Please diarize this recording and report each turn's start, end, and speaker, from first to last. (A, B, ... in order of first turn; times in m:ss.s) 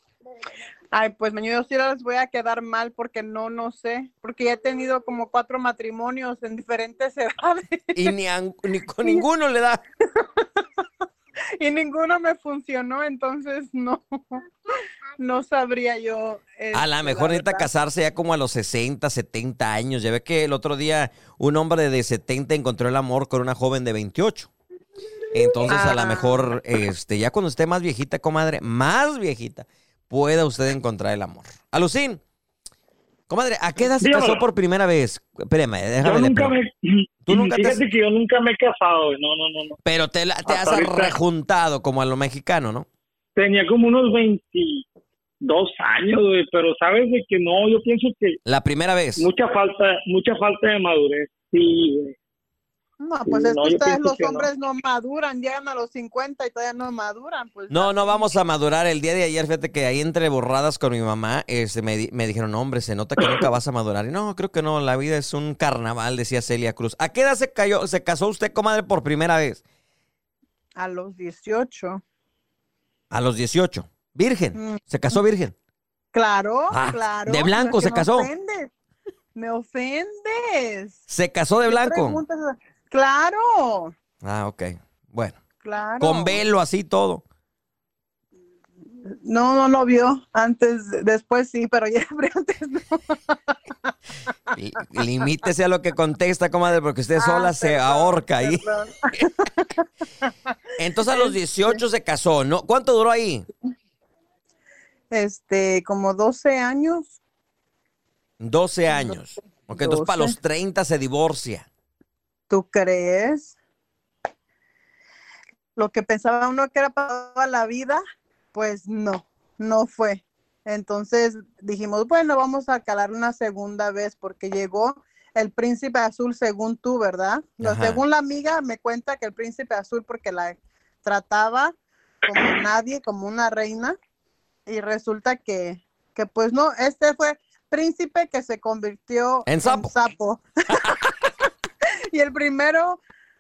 0:00.9-0:08.1 A
0:07.9-0:09.8 B
0:10.1-0:10.8 A
0:11.6-0:14.4 A
0:15.2-0:17.7 A
0:16.7-0:24.5 B
0:25.3-0:32.2 B
0:25.6-0:26.5 A
0:33.3-0:36.5 B
0:34.0-0:34.4 C
0:36.0-0:39.8 C
0:37.3-0:37.8 B
0:39.8-0:42.9 B
0:40.5-0:41.2 C
0:43.4-0:44.8 C
0:45.4-0:48.4 C
0:48.4-0:49.3 B
0:49.2-0:52.1 C
0:53.0-0:58.3 A
0:53.2-0:54.5 C
0:57.7-1:09.6 B
1:10.8-1:12.0 A
1:13.1-1:15.5 B
1:14.5-1:14.8 A
1:16.1-1:18.7 A
1:16.7-1:18.3 B
1:19.3-1:21.0 A
1:21.1-1:22.2 B
1:21.6-1:23.9 A
1:24.2-1:25.4 B
1:25.6-1:26.4 A
1:26.0-1:27.2 B
1:29.0-1:33.5 A
1:34.5-1:38.6 B
1:37.2-1:40.5 A
1:40.8-1:43.4 B
1:41.1-1:41.8 A
1:45.1-1:47.1 A
1:48.4-1:51.6 B
1:49.7-1:50.4 A
1:52.5-1:53.5 A
1:55.8-1:58.0 A
1:58.5-2:14.0 A
2:07.6-2:08.0 B
2:14.6-2:21.4 A
2:19.5-2:19.9 B
2:20.7-2:21.1 B
2:22.1-2:23.0 A